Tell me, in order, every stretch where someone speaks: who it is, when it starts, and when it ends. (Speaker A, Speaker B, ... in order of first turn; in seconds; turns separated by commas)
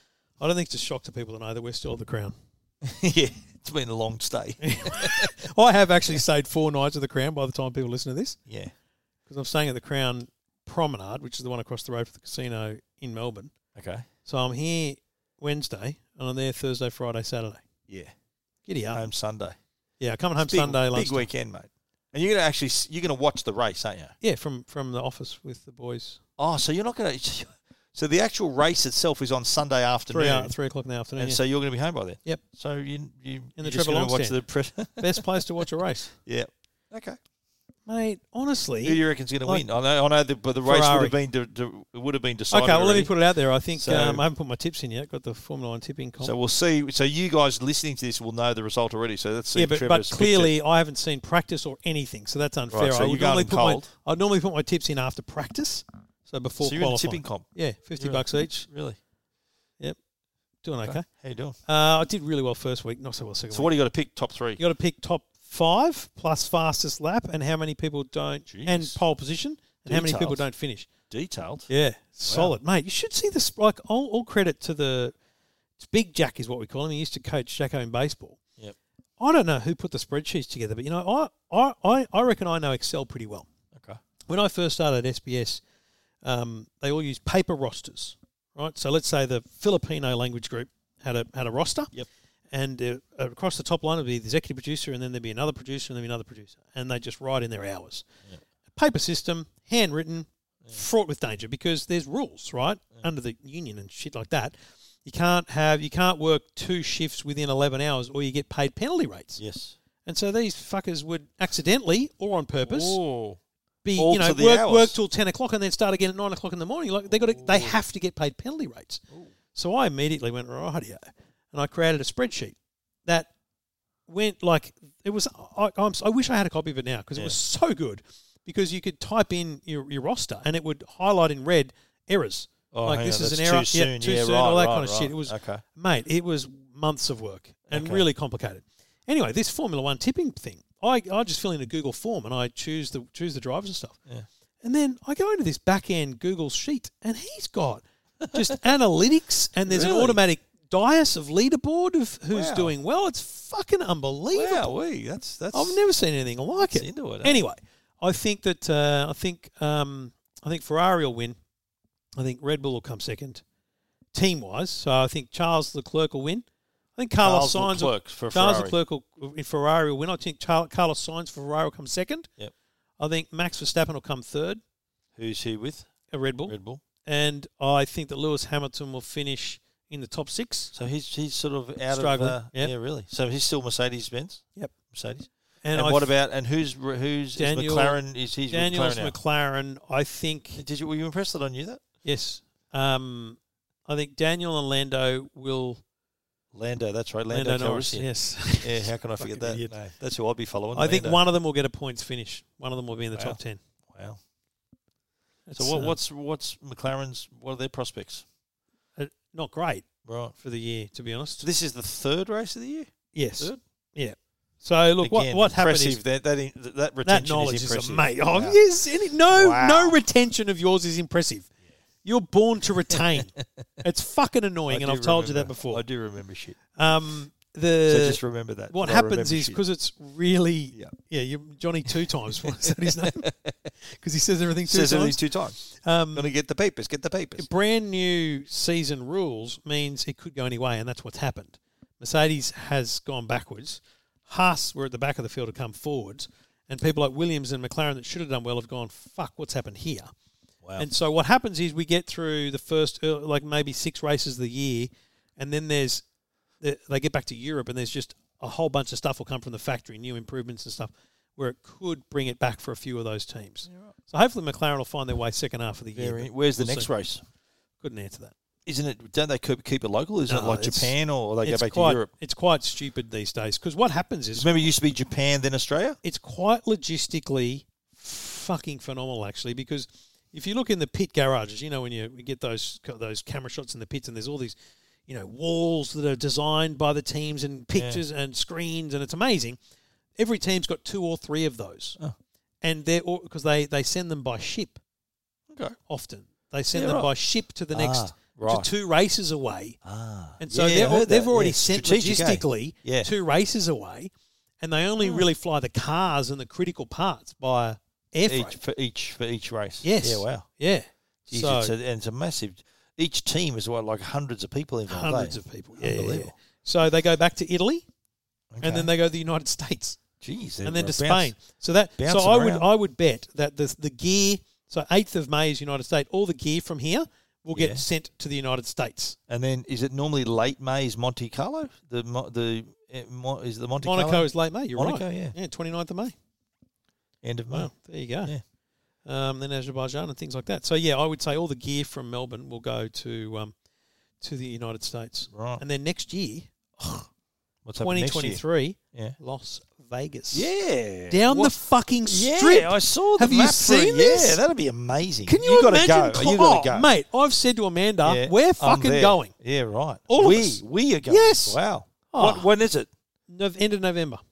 Speaker A: 0.4-2.3, Speaker B: 2.8-5.3, Speaker A: 4.6-8.4, Speaker A: 9.3-13.5, Speaker B: 13.7-14.0, Speaker A: 14.2-17.6, Speaker B: 17.9-18.1, Speaker A: 18.6-19.0, Speaker B: 18.9-19.6, Speaker A: 20.0-21.3, Speaker B: 20.4-24.1, Speaker A: 24.2-26.2, Speaker B: 26.4-30.5, Speaker A: 30.1-31.4, Speaker B: 31.2-35.3, Speaker A: 33.6-34.4, Speaker A: 35.0-36.1, Speaker B: 36.2-37.2, Speaker A: 37.9-39.6, Speaker B: 38.8-43.1, Speaker A: 40.6-41.1, Speaker A: 42.5-46.3, Speaker B: 43.8-44.2, Speaker B: 46.2-50.5, Speaker A: 49.5-58.7, Speaker B: 52.7-53.9, Speaker B: 56.6-59.0, Speaker A: 60.6-61.0, Speaker B: 60.8-61.6, Speaker A: 61.6-63.7, Speaker B: 63.5-64.6, Speaker A: 64.6-70.9, Speaker B: 68.5-69.0, Speaker B: 69.8-70.5, Speaker B: 71.1-71.7, Speaker A: 71.7-75.1, Speaker B: 72.3-72.5, Speaker A: 75.8-78.4, Speaker A: 79.2-83.5, Speaker B: 83.7-84.0, Speaker A: 84.3-85.6, Speaker A: 86.2-91.9, Speaker A: 92.5-98.0, Speaker A: 98.7-104.5, Speaker A: 105.0-109.4, Speaker B: 109.4-109.8, Speaker A: 110.0-113.0, Speaker B: 112.6-113.4, Speaker A: 113.8-119.0, Speaker B: 114.0-115.0, Speaker B: 117.1-117.8, Speaker A: 119.5-122.5, Speaker A: 123.0-123.3, Speaker A: 124.1-143.9, Speaker B: 132.7-135.6, Speaker B: 137.7-138.0, Speaker A: 144.6-154.7, Speaker B: 148.2-148.5, Speaker B: 149.7-150.2, Speaker B: 152.3-152.7, Speaker B: 154.3-155.8, Speaker A: 155.5-161.3, Speaker B: 156.7-157.4, Speaker A: 162.2-163.4, Speaker A: 164.1-166.4, Speaker A: 167.0-172.3, Speaker B: 167.2-168.8, Speaker A: 173.0-174.6, Speaker B: 175.2-175.9, Speaker A: 176.1-180.7, Speaker B: 176.5-176.8, Speaker B: 180.7-189.2, Speaker A: 181.9-182.7, Speaker A: 185.6-186.1, Speaker A: 187.3-190.6, Speaker B: 190.6-191.8, Speaker A: 192.0-195.8, Speaker B: 196.5-201.2, Speaker A: 197.3-199.7, Speaker A: 200.7-203.6, Speaker B: 203.1-204.2, Speaker A: 205.5-205.9, Speaker B: 205.6-208.2, Speaker A: 209.0-209.8, Speaker B: 210.0-210.3, Speaker A: 210.4-211.4, Speaker B: 211.4-213.6, Speaker A: 213.1-216.0, Speaker B: 215.0-218.6, Speaker A: 217.0-221.5, Speaker B: 219.3-220.0, Speaker A: 222.0-225.8, Speaker B: 222.9-223.8, Speaker B: 224.7-226.6, Speaker A: 226.7-228.2, Speaker B: 227.8-229.6, Speaker A: 228.7-233.3, Speaker B: 232.3-233.5, Speaker A: 233.8-236.3, Speaker B: 234.7-235.6, Speaker B: 236.1-237.5, Speaker A: 237.4-250.1, Speaker A: 250.8-256.0, Speaker A: 256.6-266.9, Speaker B: 265.9-267.2, Speaker A: 267.8-268.3, Speaker B: 268.6-272.1, Speaker A: 270.2-274.6, Speaker B: 274.4-276.0, Speaker A: 276.0-284.5, Speaker A: 285.1-289.6, Speaker B: 287.7-288.0, Speaker A: 290.2-292.0, Speaker A: 292.6-294.8, Speaker B: 295.5-295.8, Speaker A: 295.9-299.8, Speaker B: 296.7-297.1, Speaker B: 297.7-298.7, Speaker B: 299.8-303.1, Speaker A: 300.4-308.6, Speaker B: 305.0-305.2, Speaker B: 308.3-310.4, Speaker A: 309.8-311.7, Speaker B: 311.3-316.3, Speaker A: 314.9-317.9, Speaker B: 318.5-318.9, Speaker A: 318.6-320.0, Speaker B: 320.2-321.3, Speaker A: 320.6-329.1, Speaker B: 322.0-322.7, Speaker B: 327.5-327.8, Speaker B: 329.3-335.3, Speaker A: 333.8-336.1, Speaker B: 337.2-337.7, Speaker A: 337.5-338.4, Speaker A: 339.0-343.5, Speaker A: 344.2-347.1, Speaker B: 345.3-345.6, Speaker B: 347.6-348.4, Speaker A: 347.8-350.5, Speaker B: 350.3-356.9, Speaker A: 351.1-354.4, Speaker A: 355.2-359.3, Speaker B: 358.0-362.9, Speaker A: 360.1-361.6, Speaker A: 362.1-362.5, Speaker A: 363.3-364.2